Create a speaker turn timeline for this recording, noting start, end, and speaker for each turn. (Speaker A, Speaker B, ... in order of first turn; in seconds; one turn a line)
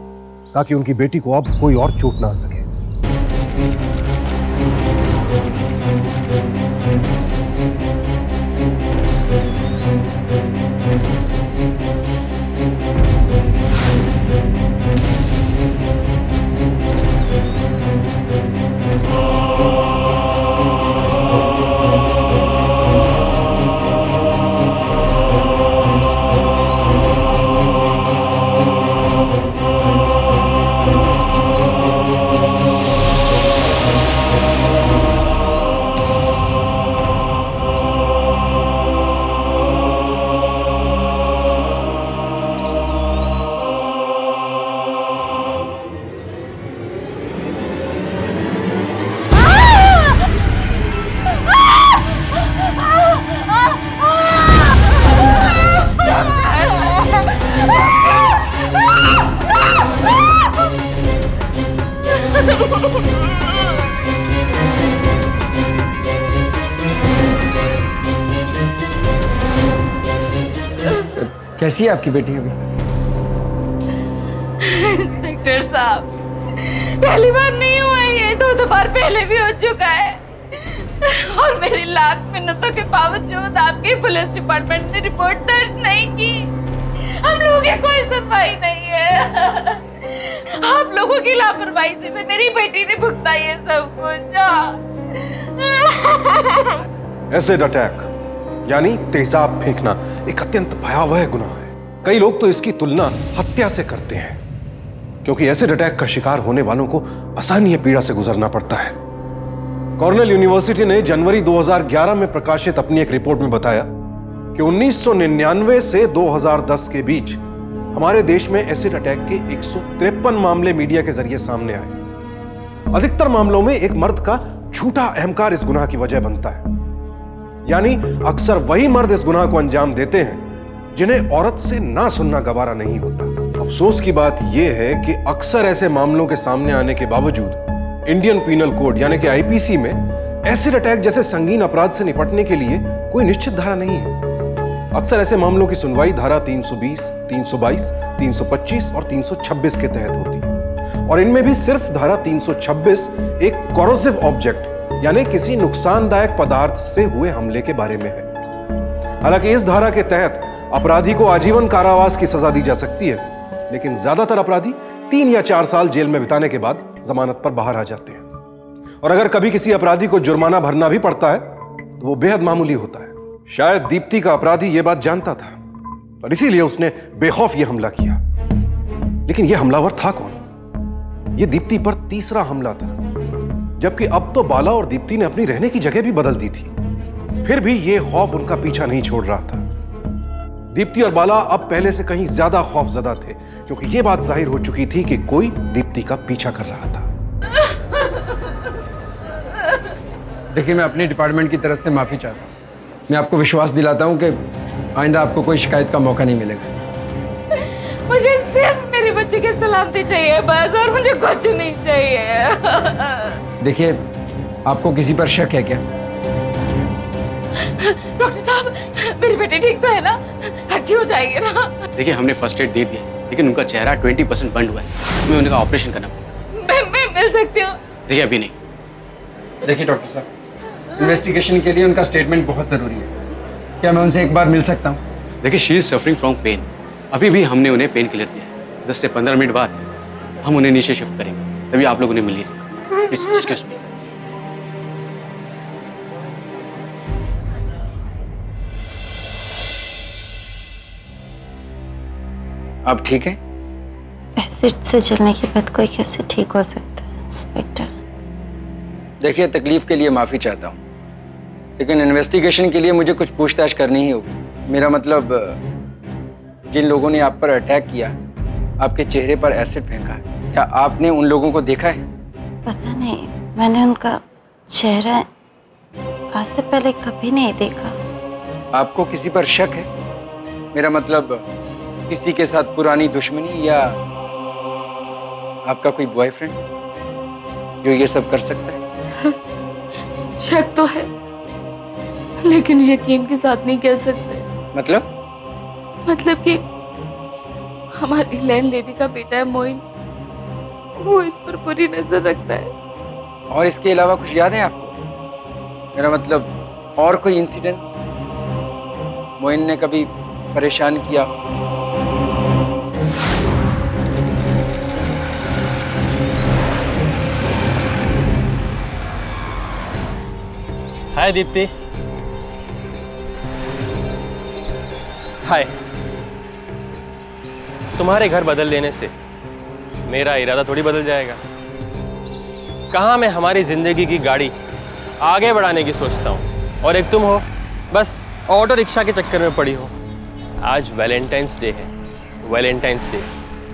Speaker A: 0.5-2.7
Speaker B: 71.2-72.6
Speaker C: 74.6-96.8
Speaker A: 97.3-98.1
Speaker A: 98.7-104.4
Speaker A: 105.2-109.0
Speaker A: 110.0-113.9
Speaker A: 114.5-117.4
Speaker A: 117.9-122.0
Speaker A: 122.9-126.7
Speaker A: 127.7-144.2
Speaker A: 144.9-150.6
Speaker A: 151.1-158.3
Speaker A: 159.2-168.2
Speaker A: 169.0-175.6
Speaker A: 176.2-178.2
Speaker A: 179.3-180.4
Speaker A: 181.4-183.0
Speaker A: 183.8-186.7
Speaker A: 187.4-189.7
Speaker A: 190.7-197.1
Speaker B: 200.5-202.5
Speaker B: 203.1-204.3
Speaker B: 205.0-206.7
Speaker C: 207.6-213.4
Speaker B: 213.6-214.0
Speaker B: 214.7-215.8
Speaker C: 217.6-221.8
Speaker D: 222.0-226.3
Speaker C: 226.6-227.8
Speaker D: 228.1-228.5
Speaker B: 229.6-230.3
Speaker B: 231.0-233.1
Speaker B: 233.8-235.0
Speaker D: 235.4-239.8
Speaker D: 240.4-243.8
Speaker B: 252.9-253.4
Speaker E: 254.4-257.9
Speaker B: 259.2-260.8
Speaker B: 261.8-265.6
Speaker B: 266.7-268.1
Speaker B: 268.8-272.0
Speaker E: 272.7-275.3
Speaker E: 276.4-277.9
Speaker B: 278.7-279.9
Speaker B: 280.7-281.4
Speaker B: 282.1-283.9
Speaker B: 285.7-286.6
Speaker B: 287.8-288.8
Speaker C: 289.1-289.4
Speaker C: 290.4-291.1
Speaker C: 292.4-294.4
Speaker B: 294.8-295.1
Speaker C: 296.1-296.6
Speaker C: 298.0-299.8
Speaker C: 301.0-302.7
Speaker B: 303.5-305.0
Speaker B: 305.9-307.8
Speaker B: 309.4-311.3
Speaker F: 321.1-321.7
Speaker F: 325.4-325.7
Speaker F: 328.0-329.1
Speaker F: 330.1-331.4
Speaker F: 332.9-334.5
Speaker F: 335.2-339.9
Speaker F: 340.6-341.9
Speaker F: 342.4-343.3